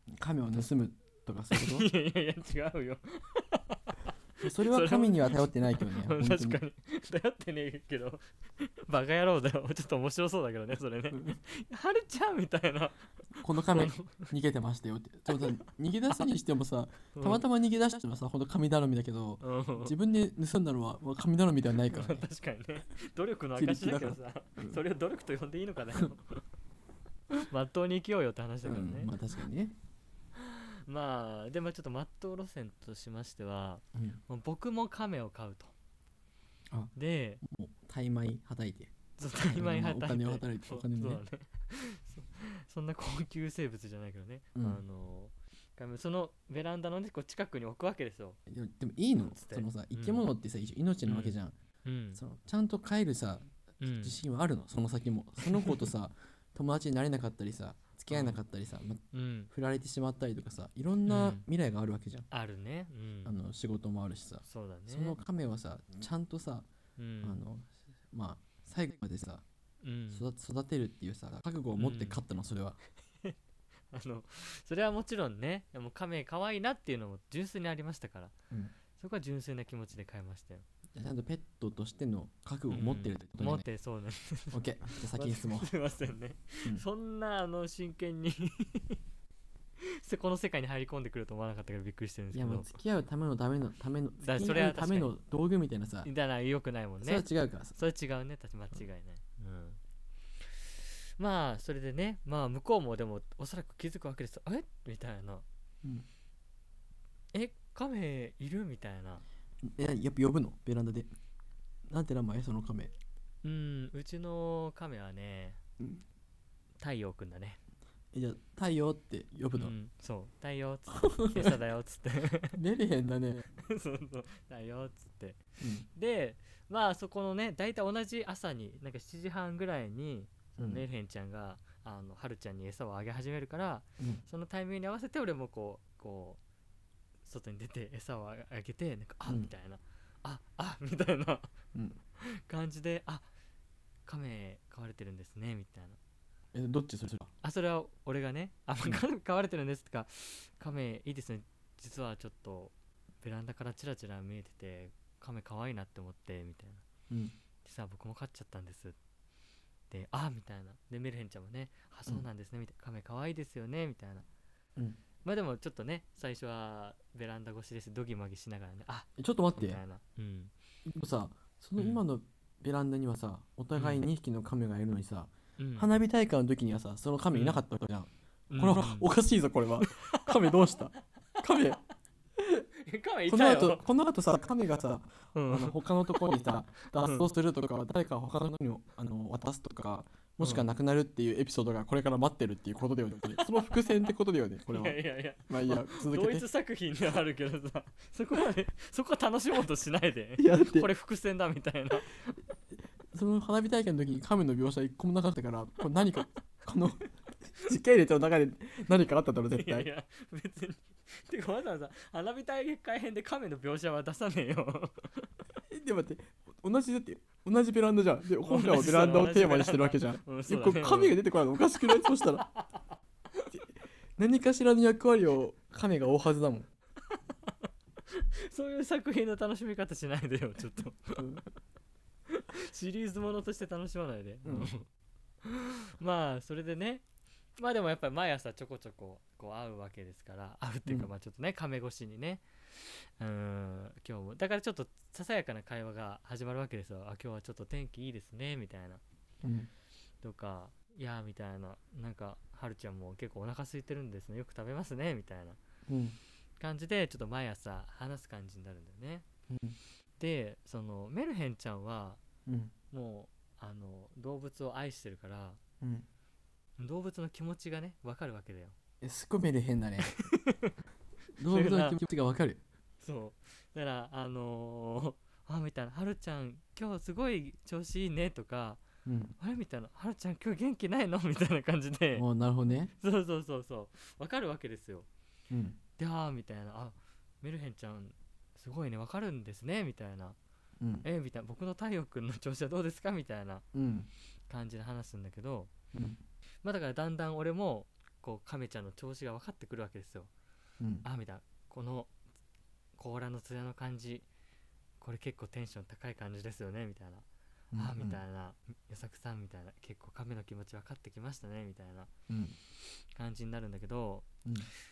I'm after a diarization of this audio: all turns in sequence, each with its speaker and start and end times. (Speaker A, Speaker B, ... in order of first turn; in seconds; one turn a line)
Speaker A: 0.1-1.9
Speaker B: 1.5-14.3
Speaker A: 4.4-6.6
Speaker A: 11.1-11.4
Speaker A: 13.4-22.2
Speaker B: 17.1-17.4
Speaker B: 19.4-19.9
Speaker B: 21.9-26.4
Speaker A: 23.6-24.8
Speaker B: 27.4-29.1
Speaker A: 28.6-29.7
Speaker B: 30.4-35.7
Speaker A: 34.0-34.2
Speaker A: 36.7-41.2
Speaker B: 37.0-37.4
Speaker B: 39.2-48.4
Speaker A: 44.5-44.8
Speaker A: 48.5-51.5
Speaker B: 49.2-50.2
Speaker B: 51.0-52.2
Speaker A: 52.2-53.5
Speaker B: 53.8-54.2
Speaker A: 54.0-62.3
Speaker B: 55.4-55.9
Speaker B: 58.1-58.4
Speaker B: 59.1-59.5
Speaker B: 61.0-61.4
Speaker B: 62.3-63.4
Speaker A: 63.2-66.7
Speaker B: 64.5-65.2
Speaker B: 67.0-67.4
Speaker A: 67.2-69.4
Speaker B: 69.8-70.3
Speaker A: 70.1-72.8
Speaker B: 71.8-72.2
Speaker B: 73.9-78.3
Speaker B: 79.0-80.6
Speaker A: 81.0-83.7
Speaker B: 82.7-89.0
Speaker A: 84.5-85.7
Speaker B: 89.8-92.7
Speaker A: 92.3-96.1
Speaker B: 94.2-95.1
Speaker B: 96.0-99.8
Speaker A: 97.0-97.8
Speaker B: 100.8-105.5
Speaker B: 107.3-109.2
Speaker A: 109.6-111.1
Speaker A: 111.9-112.9
Speaker B: 113.4-115.6
Speaker B: 116.8-117.6
Speaker A: 118.1-119.7
Speaker B: 119.5-122.6
Speaker A: 120.9-121.6
Speaker A: 122.5-123.4
Speaker B: 123.5-136.4
Speaker A: 125.6-125.9
Speaker A: 130.6-130.8
Speaker A: 134.0-134.2
Speaker B: 137.2-141.5
Speaker A: 139.3-139.5
Speaker B: 142.2-143.3
Speaker B: 144.1-146.0
Speaker A: 146.5-147.3
Speaker B: 147.4-156.8
Speaker B: 157.6-158.9
Speaker B: 159.9-164.3
Speaker B: 165.2-170.5
Speaker A: 169.2-169.8
Speaker A: 170.9-181.8
Speaker B: 173.8-174.1
Speaker B: 175.6-175.9
Speaker B: 177.3-177.6
Speaker B: 178.5-179.1
Speaker B: 179.8-180.7
Speaker B: 181.4-181.7
Speaker A: 182.4-182.7
Speaker B: 182.8-183.9
Speaker A: 183.3-196.4
Speaker B: 185.3-186.3
Speaker B: 186.9-187.3
Speaker B: 190.4-190.7
Speaker B: 193.4-194.1
Speaker B: 194.7-202.4
Speaker A: 200.4-200.9
Speaker A: 203.1-209.9
Speaker B: 209.5-215.3
Speaker A: 215.7-222.5
Speaker B: 218.4-221.2
Speaker B: 221.8-222.8
Speaker A: 223.5-226.7
Speaker B: 228.1-231.4
Speaker A: 231.1-231.4
Speaker B: 232.3-234.9
Speaker A: 234.4-234.7
Speaker B: 235.4-237.0
Speaker B: 237.6-249.0
Speaker A: 249.4-249.7
Speaker B: 250.2-255.6
Speaker A: 255.9-256.2
Speaker B: 256.6-259.3
Speaker A: 259.5-259.8
Speaker B: 260.2-262.2
Speaker A: 262.4-262.7
Speaker B: 262.9-265.6
Speaker A: 265.8-266.1
Speaker B: 266.8-268.8
Speaker A: 269.0-270.1
Speaker B: 270.0-270.7
Speaker A: 271.4-272.6
Speaker B: 271.4-272.0
Speaker B: 273.0-278.8
Speaker A: 279.1-279.4
Speaker B: 279.4-282.3
Speaker A: 282.2-282.9
Speaker B: 283.0-285.1
Speaker A: 285.5-285.8
Speaker B: 286.0-290.4
Speaker A: 290.8-291.1
Speaker B: 291.0-293.7
Speaker A: 293.7-294.1
Speaker B: 294.5-295.7
Speaker A: 295.9-296.2
Speaker B: 296.6-300.3
Speaker A: 300.8-301.1
Speaker B: 301.0-302.1
Speaker B: 303.0-304.3
Speaker B: 305.0-312.1
Speaker A: 307.7-308.2
Speaker A: 312.3-312.6
Speaker B: 312.9-314.3
Speaker A: 314.4-314.7